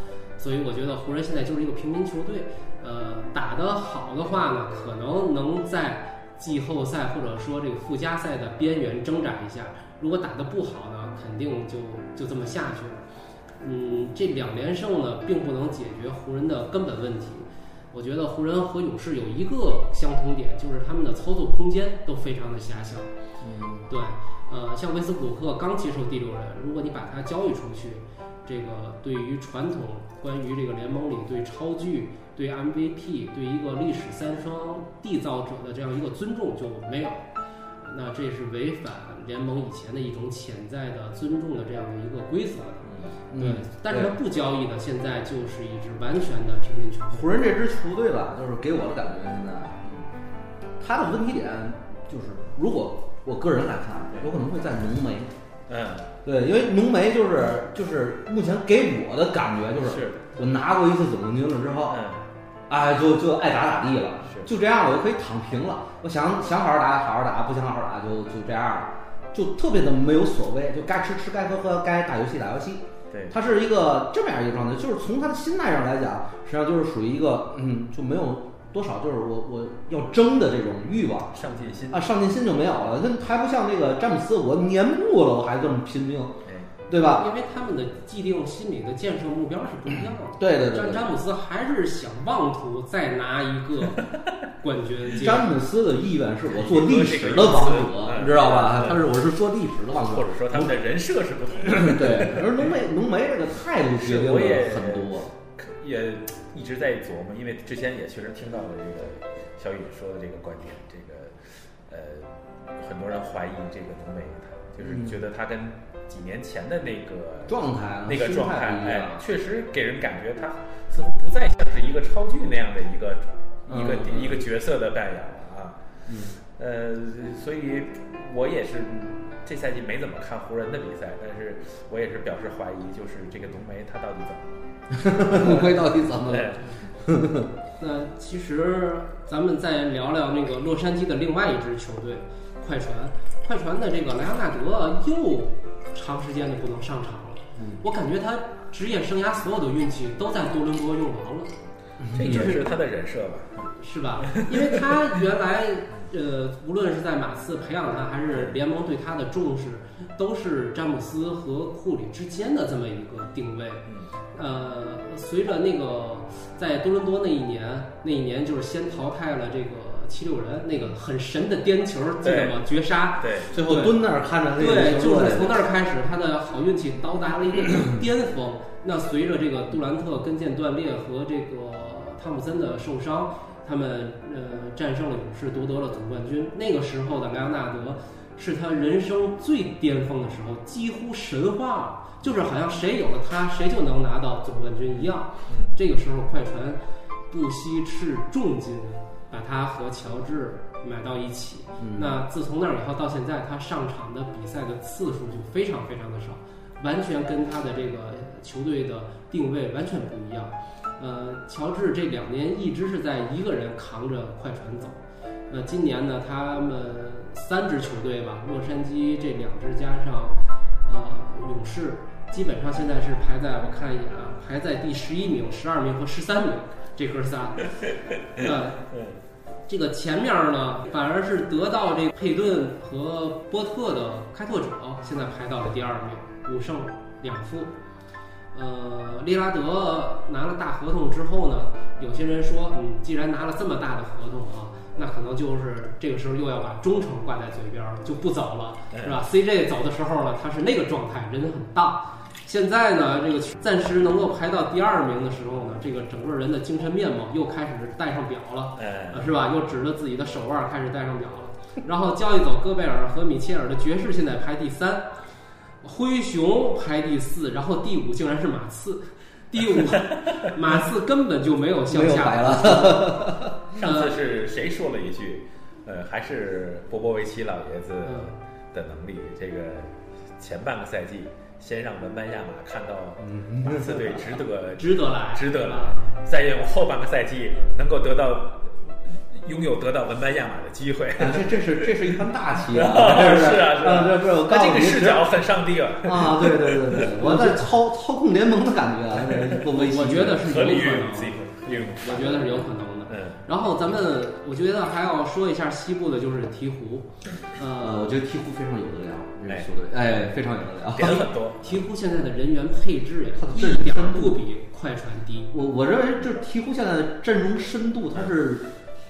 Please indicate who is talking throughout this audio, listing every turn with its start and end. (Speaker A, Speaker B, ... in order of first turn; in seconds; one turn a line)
Speaker A: 0.4-13.0
Speaker A: 13.6-23.1
Speaker B: 23.4-23.9
Speaker A: 23.9-37.2
Speaker A: 37.8-42.9
Speaker C: 42.9-43.1
Speaker B: 43.3-44.1
Speaker A: 43.4-47.4
Speaker B: 47.1-49.8
Speaker B: 50.8-55.3
Speaker C: 55.7-56.1
Speaker B: 56.2-62.0
Speaker C: 59.8-60.3
Speaker C: 61.9-62.2
Speaker B: 62.7-87.3
Speaker C: 73.1-73.3
Speaker C: 81.3-82.1
Speaker C: 86.4-86.7
Speaker A: 87.0-95.5
Speaker B: 90.4-91.1
Speaker B: 95.1-100.7
Speaker C: 96.5-99.1
Speaker C: 100.1-102.7
Speaker B: 101.7-105.3
Speaker C: 104.0-125.8
Speaker B: 114.8-115.2
Speaker B: 117.5-119.2
Speaker B: 123.7-124.4
Speaker B: 126.1-126.4
Speaker C: 126.5-136.7
Speaker B: 134.9-137.5
Speaker A: 137.8-151.5
Speaker B: 147.6-147.8
Speaker B: 152.0-152.6
Speaker C: 152.1-153.7
Speaker A: 152.3-152.6
Speaker A: 153.8-174.0
Speaker C: 154.2-154.8
Speaker C: 172.2-172.6
Speaker C: 173.2-173.5
Speaker B: 173.5-175.6
Speaker A: 174.6-227.7
Speaker C: 195.5-195.7
Speaker B: 201.8-202.2
Speaker A: 228.4-228.8
Speaker C: 228.4-229.2
Speaker A: 229.7-237.7
Speaker A: 238.5-265.1
Speaker C: 248.9-249.2
Speaker C: 258.8-259.3
Speaker A: 265.8-273.2
Speaker B: 271.9-273.6
Speaker C: 273.7-292.2
Speaker A: 273.8-274.1
Speaker A: 278.0-278.3
Speaker B: 283.2-284.2
Speaker A: 284.8-286.2
Speaker B: 291.2-295.3
Speaker C: 292.7-297.6
Speaker B: 296.0-300.5
Speaker C: 299.3-299.6
Speaker A: 299.6-308.2
Speaker C: 300.3-303.4
Speaker B: 307.8-311.2
Speaker C: 310.9-311.8
Speaker A: 311.0-315.5
Speaker B: 313.4-314.4
Speaker B: 315.5-318.7